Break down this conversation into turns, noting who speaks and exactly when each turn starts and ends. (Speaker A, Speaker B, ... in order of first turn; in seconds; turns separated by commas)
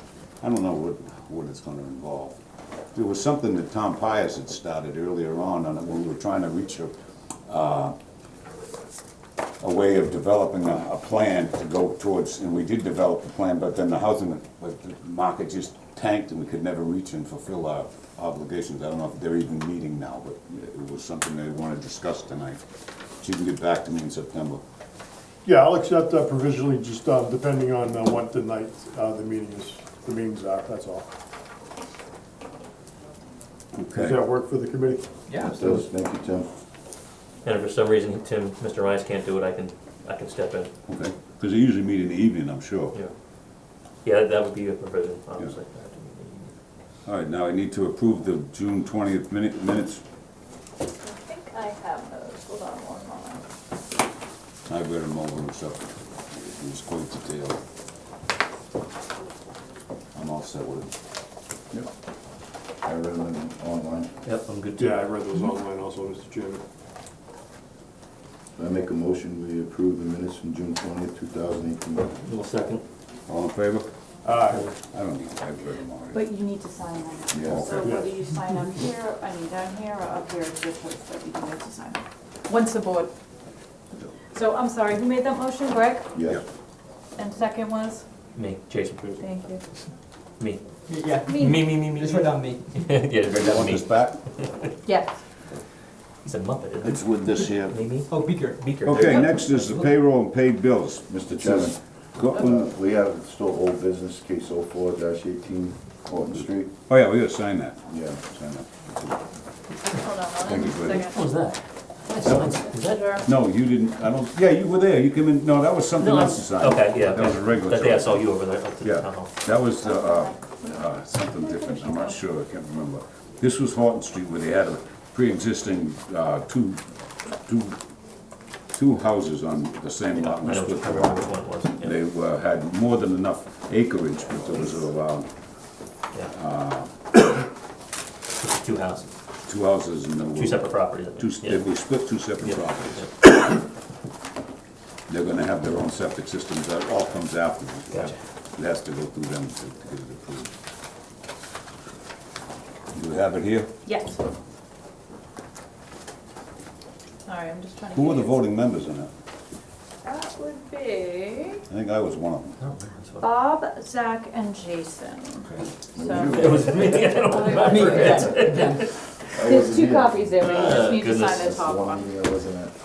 Speaker A: 0.4-2.4, Speaker A: 2.9-6.9, Speaker A: 7.5-8.0, Speaker A: 9.6-22.6, Speaker A: 23.2-24.6, Speaker B: 25.4-31.1, Speaker A: 33.8-34.2, Speaker B: 34.0-35.1, Speaker C: 35.3-35.6, Speaker D: 35.4-36.5, Speaker E: 37.4-40.7, Speaker A: 40.9-43.0, Speaker E: 44.0-46.5, Speaker A: 47.1-50.0, Speaker F: 51.0-53.5, Speaker A: 54.7-57.6, Speaker A: 60.1-60.9, Speaker D: 62.8-64.1, Speaker E: 64.2-65.4, Speaker B: 64.8-66.6, Speaker D: 68.6-72.2, Speaker E: 72.3-72.8, Speaker A: 73.3-73.9, Speaker B: 74.2-74.7, Speaker A: 74.8-76.2, Speaker F: 76.1-83.1, Speaker D: 77.3-77.7, Speaker A: 77.4-78.0, Speaker B: 77.7-78.2, Speaker F: 84.3-86.1, Speaker D: 86.2-86.4, Speaker F: 87.2-88.0, Speaker E: 88.3-89.1, Speaker B: 89.0-89.3, Speaker F: 89.2-89.6, Speaker C: 90.9-92.8, Speaker E: 91.2-94.1, Speaker F: 91.2-91.7, Speaker A: 93.2-94.2, Speaker F: 94.8-95.2, Speaker E: 96.2-98.1, Speaker A: 96.8-97.8, Speaker C: 98.1-99.1, Speaker E: 98.6-99.9, Speaker A: 98.8-102.7, Speaker D: 101.1-101.8, Speaker D: 102.3-106.7, Speaker A: 106.3-109.2, Speaker D: 107.9-108.2, Speaker F: 109.9-111.2, Speaker A: 110.4-111.1, Speaker E: 110.6-113.2, Speaker A: 112.2-112.6, Speaker F: 112.7-113.3, Speaker A: 113.2-118.3, Speaker E: 116.0-119.3, Speaker A: 118.8-126.8, Speaker F: 119.7-122.2, Speaker A: 127.5-127.8, Speaker A: 128.7-131.3, Speaker E: 130.1-132.0, Speaker A: 131.8-135.3, Speaker A: 136.3-137.2, Speaker E: 138.4-139.1, Speaker A: 139.5-143.6, Speaker E: 140.3-141.7, Speaker E: 142.4-143.1, Speaker A: 145.1-150.5, Speaker A: 152.9-153.7, Speaker F: 153.8-154.2, Speaker F: 157.3-158.4, Speaker A: 157.9-159.1, Speaker F: 160.0-161.6, Speaker A: 161.7-162.6, Speaker E: 162.6-163.3, Speaker F: 163.2-168.8, Speaker D: 165.9-166.9, Speaker E: 166.3-168.8, Speaker D: 169.4-172.8, Speaker F: 169.4-172.1, Speaker E: 170.4-171.5